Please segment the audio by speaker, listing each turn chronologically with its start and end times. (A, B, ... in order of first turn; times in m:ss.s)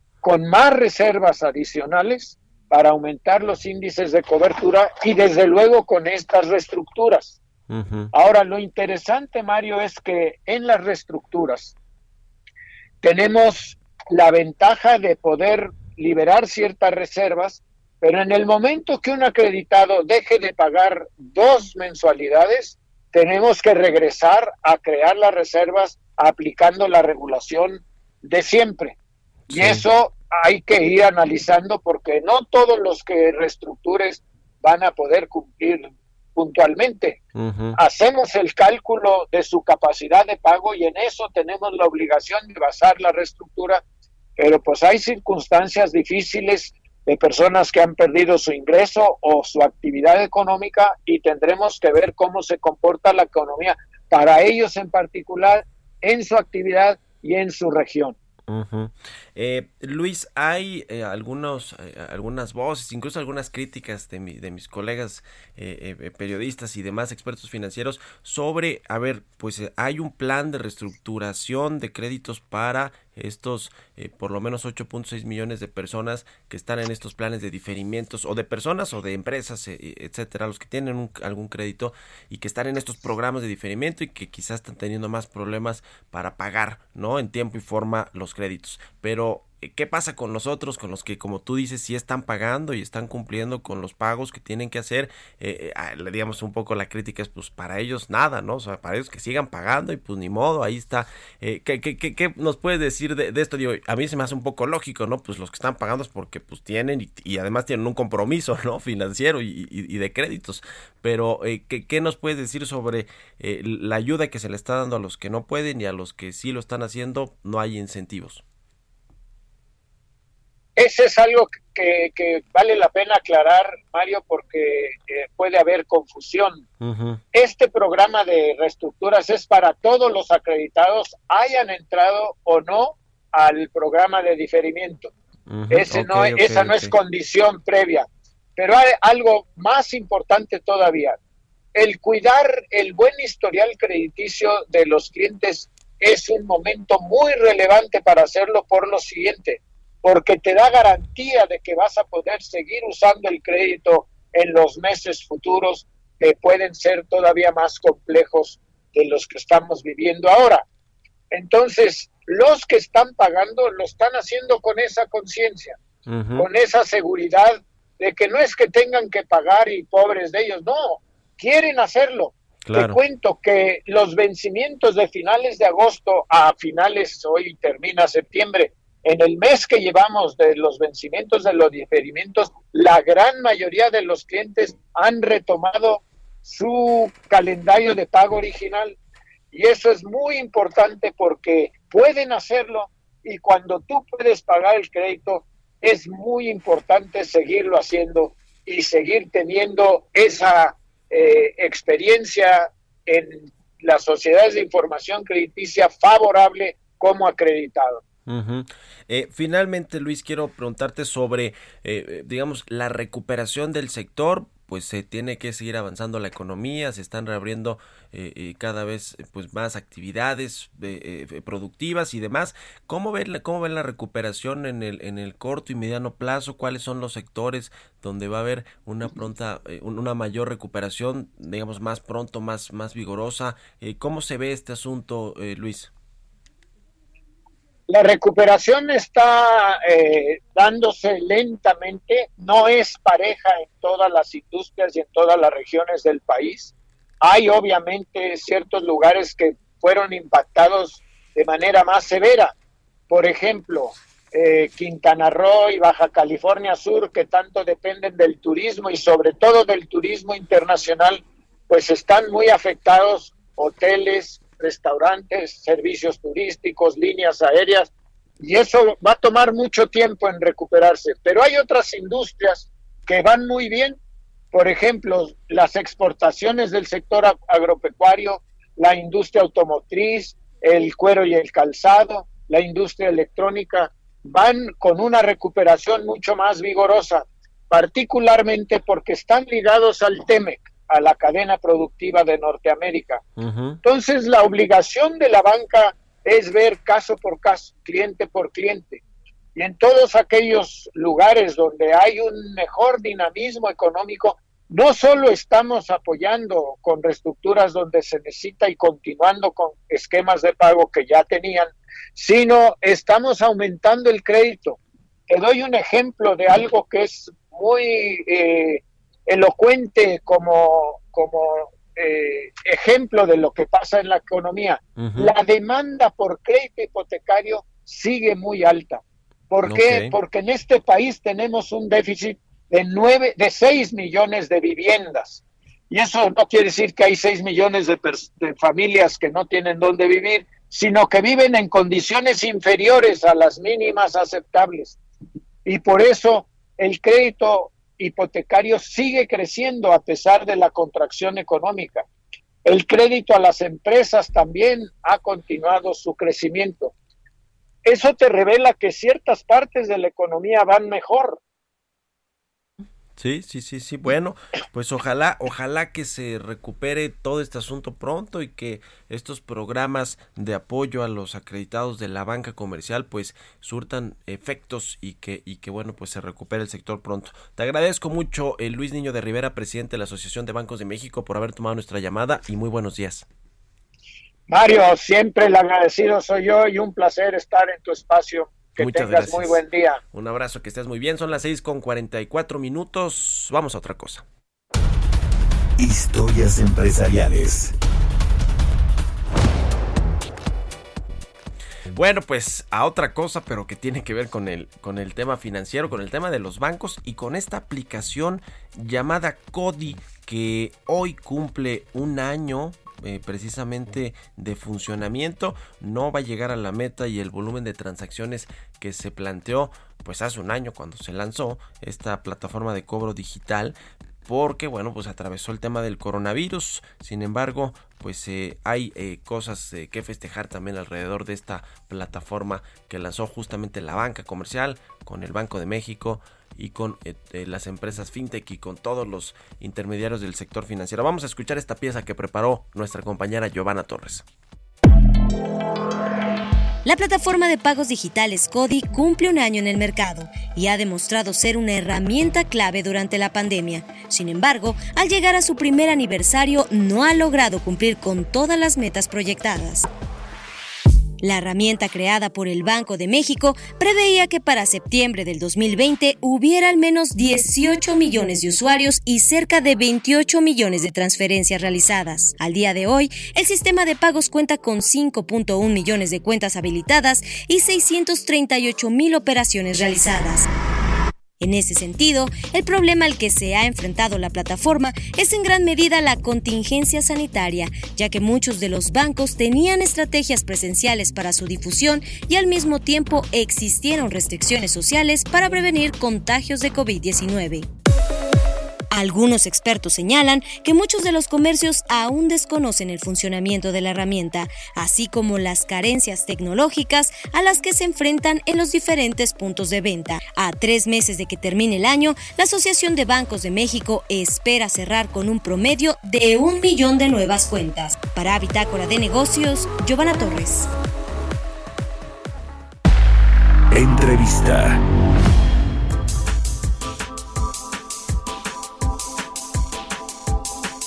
0:00.2-0:07.4 A
0:07.7-0:08.1 B
0:08.1-0:11.8 A
0:13.0-0:29.0 A
0:29.5-0:29.8 B
0:29.5-0:37.2 A
0:37.4-0:37.8 B
0:37.8-0:43.8 A
0:44.4-0:58.2 A
0:58.5-1:58.4 B
2:00.8-2:06.6 A
2:06.8-2:07.2 B
2:07.3-2:15.1 A
2:15.5-2:17.0 B
2:15.7-2:21.2 A
2:21.8-2:40.6 A
2:41.3-2:45.8 A
2:46.1-2:46.5 B
2:46.4-3:09.0 A
2:52.7-2:53.0 B
3:09.5-3:28.0 A
3:28.3-3:55.9 B
3:57.9-4:12.5 A
4:13.1-4:34.0 A
4:34.5-4:53.2 A
4:53.4-4:53.8 B
4:53.8-4:59.0 A
4:59.6-5:45.0 A
5:25.0-5:25.3 B
5:29.6-5:30.2 B
5:45.6-5:52.1 A
5:52.6-5:56.9 A
5:57.8-6:01.4 A
6:03.2-6:23.3 B
6:24.5-6:30.0 A
6:28.8-6:29.6 B
6:30.1-6:34.2 B
6:35.8-6:37.7 C
6:41.9-7:24.2 B
7:26.8-7:39.9 D
7:41.2-8:00.5 D
8:01.4-8:17.7 D
8:18.9-8:40.7 D
8:43.7-8:44.8 C